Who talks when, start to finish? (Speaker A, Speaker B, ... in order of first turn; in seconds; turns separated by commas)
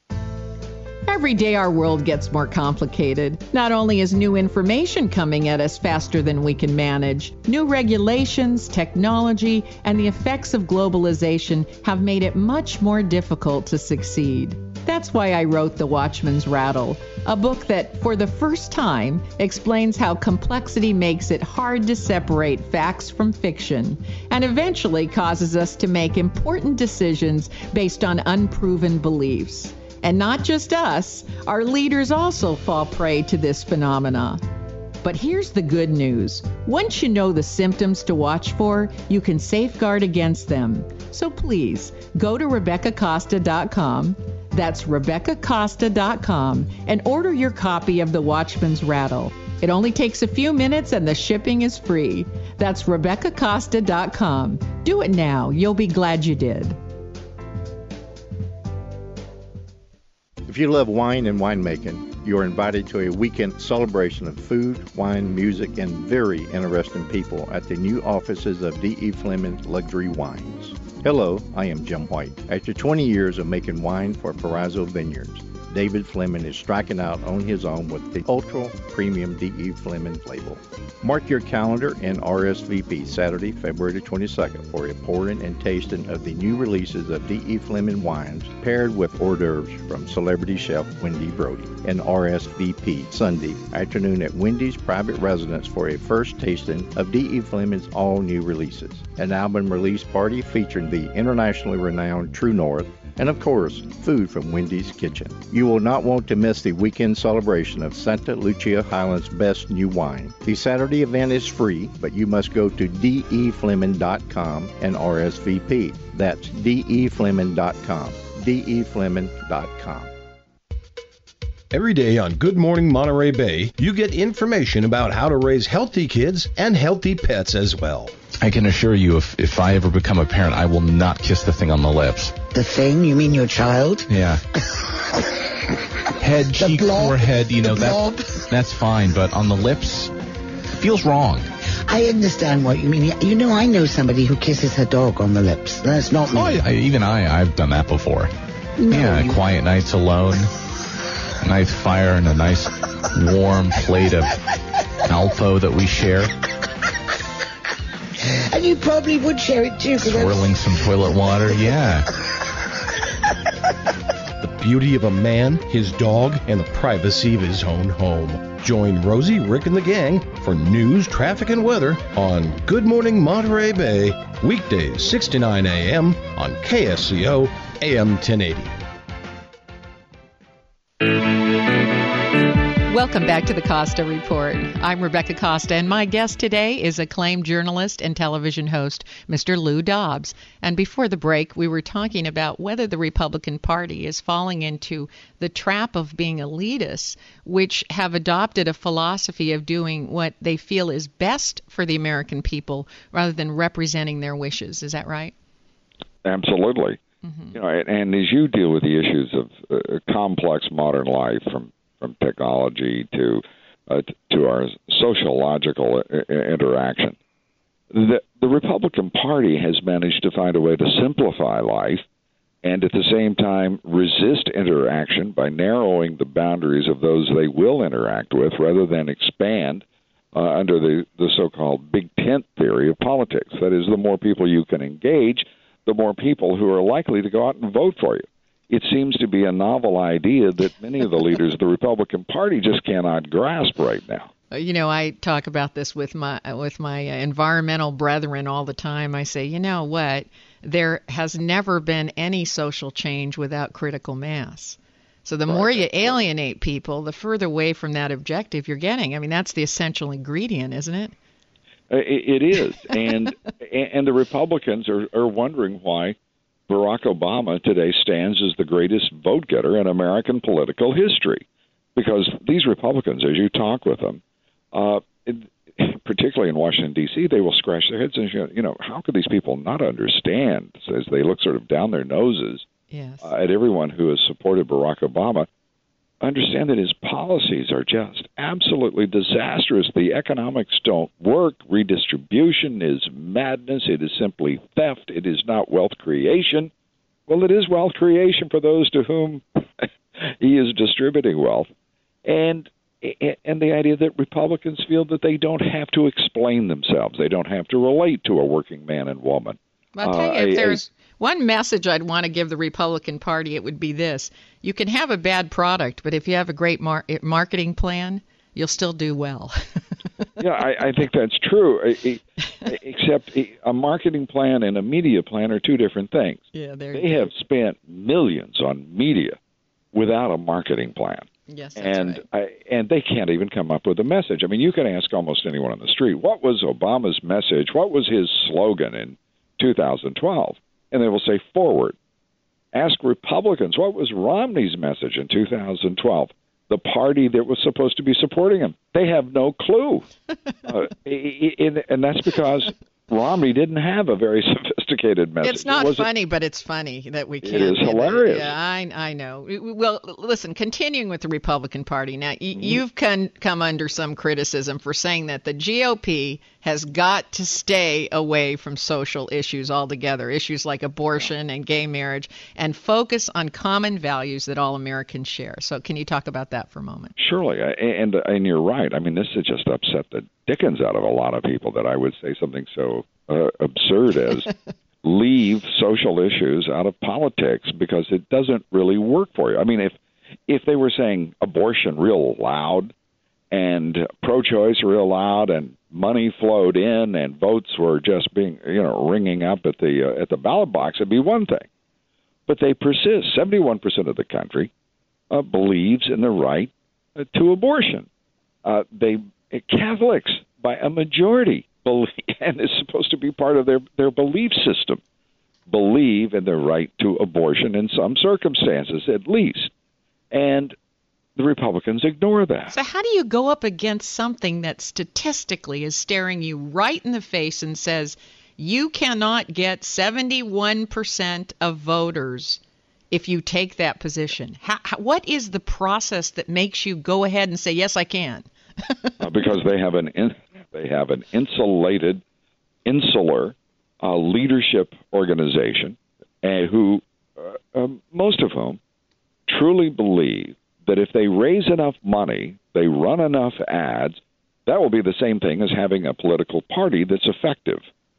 Speaker A: 1.1-34.4, Speaker A: 35.0-56.8, Speaker B: 60.5-120.1, Speaker C: 121.7-128.1, Speaker D: 128.4-132.4, Speaker E: 132.5-134.1, Speaker D: 134.1-134.4, Speaker D: 136.2-140.1, Speaker E: 136.5-138.2, Speaker D: 140.8-141.5, Speaker E: 141.9-146.6, Speaker D: 146.3-148.3, Speaker E: 148.8-149.4, Speaker D: 148.8-150.5, Speaker D: 151.4-154.3, Speaker D: 155.1-156.3, Speaker E: 158.5-160.5, Speaker D: 160.0-162.0, Speaker C: 164.4-178.7, Speaker A: 182.9-205.3, Speaker F: 206.2-207.0, Speaker A: 207.2-207.6, Speaker F: 207.5-217.2, Speaker F: 217.9-222.0, Speaker F: 222.6-244.3, Speaker A: 244.5-261.1, Speaker F: 255.5-256.2, Speaker F: 261.9-266.1, Speaker F: 266.7-271.4, Speaker F: 271.9-274.2, Speaker F: 274.7-282.6, Speaker A: 282.9-283.3, Speaker F: 283.2-285.5, Speaker F: 286.2-296.7, Speaker F: 297.3-301.7, Speaker F: 302.2-310.8, Speaker A: 310.0-319.6, Speaker F: 320.4-329.4, Speaker A: 326.5-327.3, Speaker F: 329.9-341.9, Speaker A: 331.5-332.2, Speaker F: 342.7-350.1, Speaker F: 350.6-356.1, Speaker A: 355.4-377.1, Speaker F: 357.4-358.5, Speaker F: 377.2-389.9, Speaker F: 390.5-392.9, Speaker F: 393.5-401.7, Speaker F: 402.5-404.7, Speaker F: 405.3-408.1, Speaker F: 408.6-415.0, Speaker F: 415.7-419.7, Speaker F: 420.3-420.7, Speaker F: 421.4-422.7, Speaker A: 422.7-439.0, Speaker F: 439.2-442.2, Speaker F: 442.8-448.8, Speaker F: 449.5-457.8